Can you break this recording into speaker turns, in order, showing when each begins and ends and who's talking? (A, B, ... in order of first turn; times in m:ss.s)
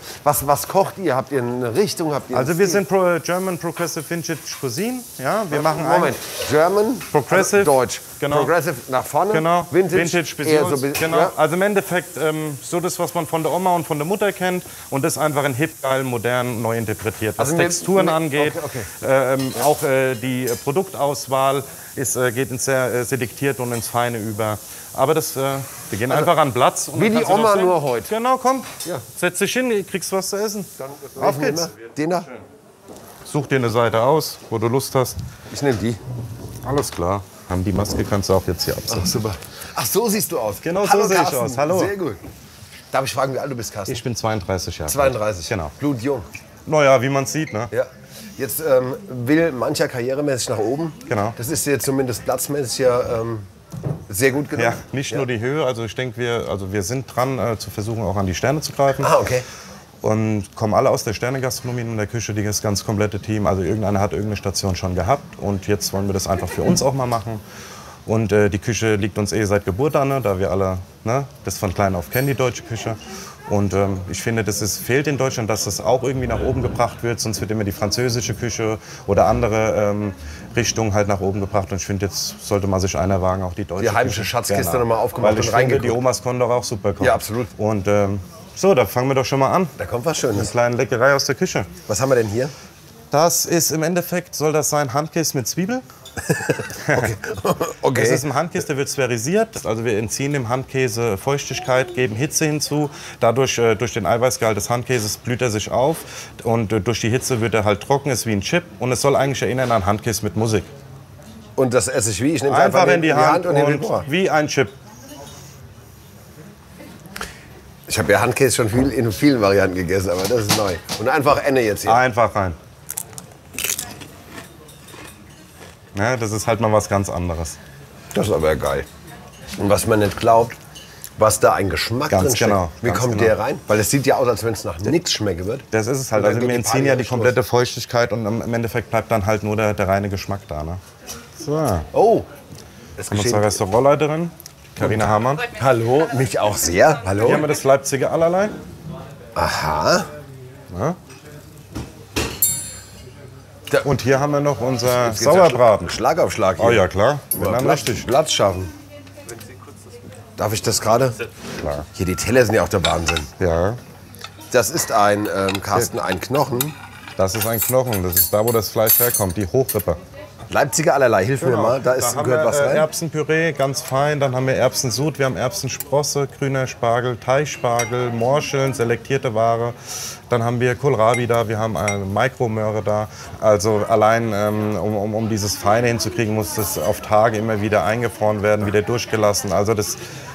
0:00.2-0:02.8 A
0:02.3-0:06.2 B
0:05.5-0:11.3 A
0:07.1-0:08.5 B
0:09.3-0:31.7 B
0:17.4-0:18.9 A
0:26.9-0:28.1 A
0:30.8-0:32.3 A
0:33.2-0:35.2 B
0:35.5-0:36.0 A
0:36.6-0:39.1 B
0:38.9-0:42.2 A
0:40.6-0:41.9 B
0:42.9-0:44.0 A
0:43.9-0:45.7 B
0:44.9-0:46.3 A
0:46.7-0:47.7 B
0:47.7-0:53.5 A
0:51.1-0:51.4 B
0:54.1-0:55.3 A
0:54.6-0:59.1 B
0:59.0-0:59.5 A
1:00.0-1:07.4 B
1:08.1-1:29.8 B
1:23.8-1:26.0 A
1:27.0-1:27.5 A
1:29.8-1:30.5 A
1:30.4-1:31.7 B
1:31.9-1:32.5 A
1:33.1-1:35.8 B
1:36.2-1:38.2 A
1:36.9-1:37.1 B
1:38.0-1:50.7 B
1:51.6-1:54.1 A
1:52.5-1:54.8 B
1:57.9-2:02.0 A
2:01.9-2:02.6 B
2:05.9-2:07.6 B
2:08.1-2:08.9 A
2:09.6-2:10.6 A
2:11.2-2:17.4 A
2:12.1-2:13.4 B
2:15.7-2:20.8 B
2:21.4-2:21.9 B
2:21.9-2:22.3 A
2:23.0-2:23.6 A
2:23.1-2:25.5 B
2:24.8-2:27.5 A
2:27.2-2:28.6 B
2:29.4-2:30.1 A
2:30.7-2:31.0 B
2:33.8-2:36.0 B
2:34.9-2:38.7 A
2:36.6-2:38.1 B
2:40.4-2:41.2 A
2:41.6-2:41.9 B
2:41.9-2:43.3 A
2:43.4-2:43.8 B
2:44.5-2:46.8 A
2:47.2-2:50.0 B
2:50.5-2:52.9 A
2:51.4-2:59.8 B
3:00.3-3:10.0 B